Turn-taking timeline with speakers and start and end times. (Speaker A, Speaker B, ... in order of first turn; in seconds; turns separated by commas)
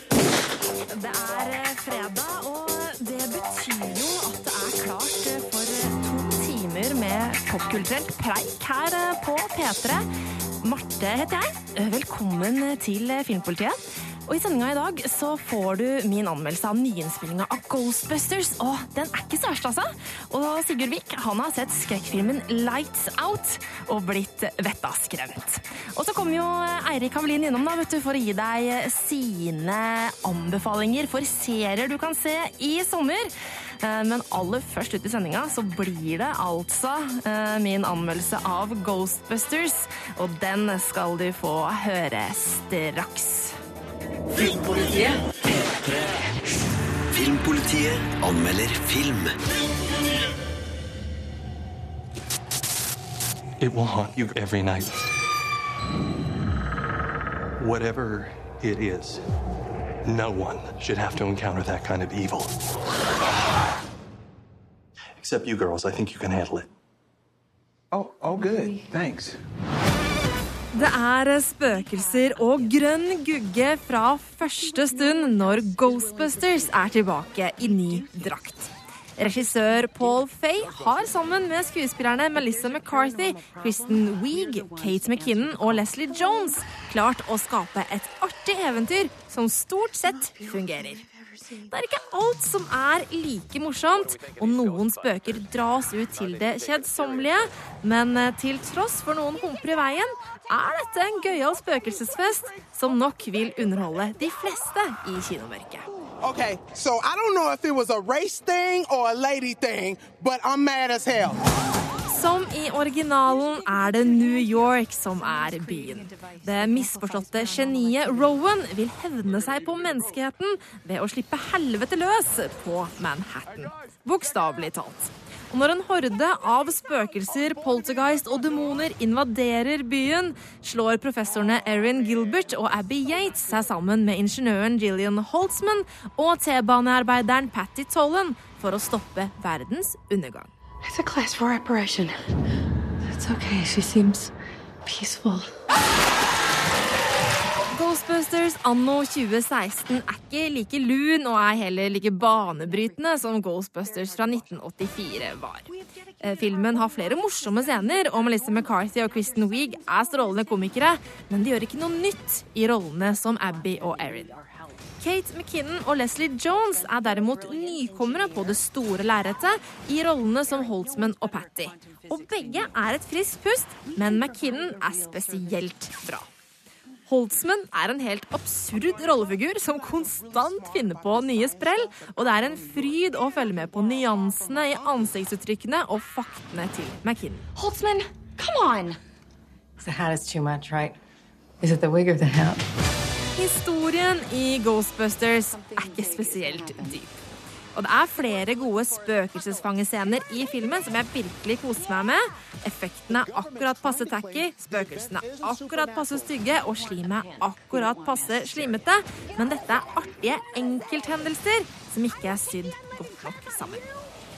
Speaker A: 0.9-10.1, Speaker A: 10.6-43.5, Speaker B: 44.4-46.2, Speaker B: 47.1-49.3, Speaker C: 53.6-55.0, Speaker C: 57.6-59.2, Speaker C: 60.0-62.6, Speaker C: 65.2-66.7, Speaker C: 67.9-69.4, Speaker D: 68.3-68.9, Speaker A: 70.7-91.0, Speaker D: 74.7-76.6, Speaker D: 77.9-78.3, Speaker D: 79.5-80.1, Speaker D: 80.7-81.1, Speaker D: 82.3-86.5, Speaker D: 90.2-91.7, Speaker A: 91.7-105.9, Speaker E: 106.2-111.4, Speaker A: 112.1-140.5, Speaker D: 114.2-114.5, Speaker D: 115.2-118.3, Speaker D: 140.8-142.2, Speaker D: 143.0-144.3, Speaker D: 144.8-145.6, Speaker A: 147.7-155.7, Speaker A: 156.2-164.3, Speaker D: 163.5-164.7, Speaker A: 165.0-176.3, Speaker D: 167.1-168.6, Speaker D: 170.9-172.4, Speaker D: 174.0-175.2, Speaker A: 177.1-187.5, Speaker D: 187.5-189.0, Speaker D: 189.8-191.0, Speaker D: 191.6-192.6, Speaker A: 193.3-197.2, Speaker D: 195.5-197.0, Speaker A: 197.7-213.9